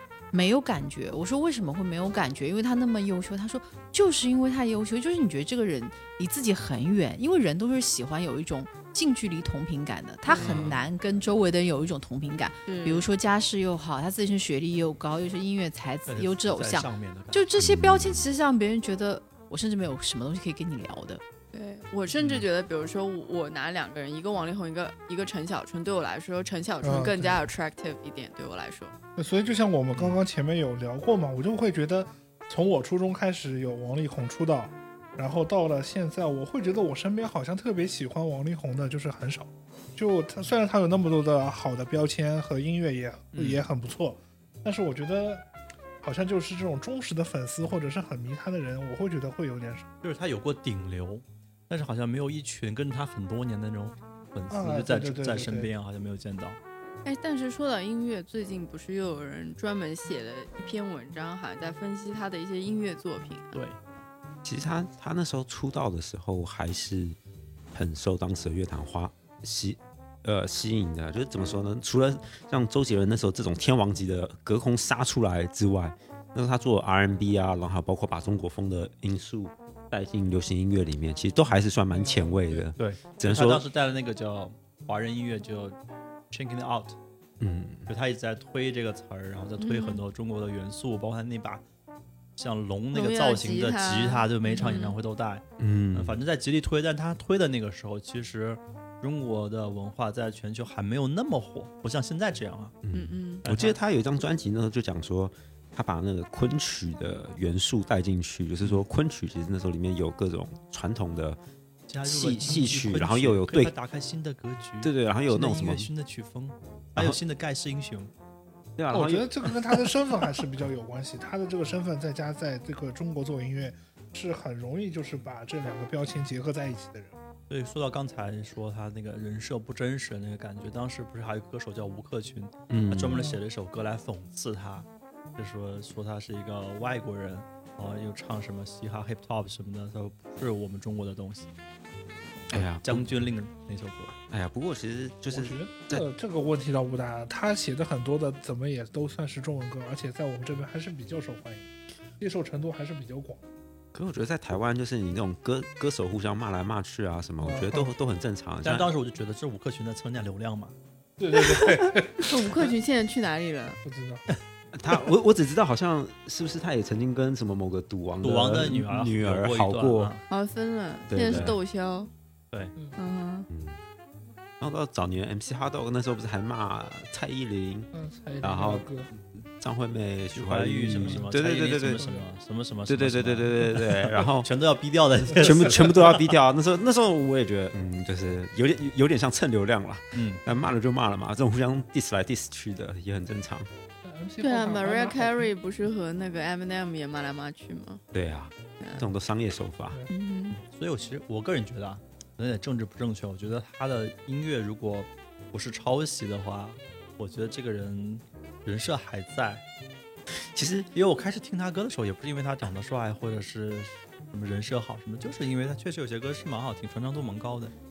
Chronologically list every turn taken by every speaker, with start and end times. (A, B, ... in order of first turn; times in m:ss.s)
0:00.3-0:21.2 A
0:10.3-0:10.6 B
0:10.3-0:10.8 C
0:12.6-0:13.1 B
0:16.1-0:17.4 C
0:17.6-0:18.2 D
0:21.5-0:28.9 B
0:22.2-0:22.4 C
0:26.8-0:27.4 E
0:29.2-0:45.4 E
0:43.3-0:43.6 C
0:46.0-0:49.9 E
0:50.0-0:56.6 C
0:54.5-0:55.7 E
0:57.0-1:03.6 B
1:04.4-1:07.2 D
1:07.7-1:23.6 D
1:21.9-1:22.6 E
1:22.8-1:25.8 C
1:26.3-1:27.0 C
1:27.4-1:27.9 D
1:27.9-1:31.6 C
1:29.6-1:30.0 B
1:32.4-1:42.8 C
1:32.9-1:35.0 B
1:35.6-1:36.2 D
1:42.8-1:51.4 D
1:42.9-1:43.4 B
1:43.4-1:43.8 C
1:51.9-1:58.1 C
1:52.0-1:53.7 D
1:54.8-1:55.9 D
1:58.8-1:59.5 D
1:58.9-2:07.1 E
2:07.5-2:21.5 C
2:12.7-2:13.3 D
2:22.5-2:23.1 D
2:22.5-2:24.1 C
2:24.3-2:26.0 D
2:25.3-2:33.4 E
2:33.9-2:38.9 D
2:37.4-2:37.9 E
2:38.6-2:40.8 C
2:41.2-2:42.3 E
2:42.2-2:43.8 B
2:43.8-2:44.2 E
2:44.7-2:50.2 D
2:48.2-2:50.2 C
2:50.3-2:52.1 B
2:51.1-2:51.6 D
2:51.3-2:51.5 C
2:53.0-2:53.5 B
2:53.5-2:53.8 D
2:54.6-2:57.9 D
2:57.9-2:59.1 E
2:58.4-3:02.0 D
3:00.3-3:06.3 C
3:02.9-3:04.5 D
3:05.4-3:13.7 D
3:10.1-3:10.4 C
3:14.0-3:15.5 E
3:14.4-3:18.0 B
3:18.1-3:20.0 D
3:18.8-3:19.1 B
3:20.1-3:20.6 B
3:20.6-3:29.6 C
3:30.5-3:30.9 D
3:30.9-3:37.7 C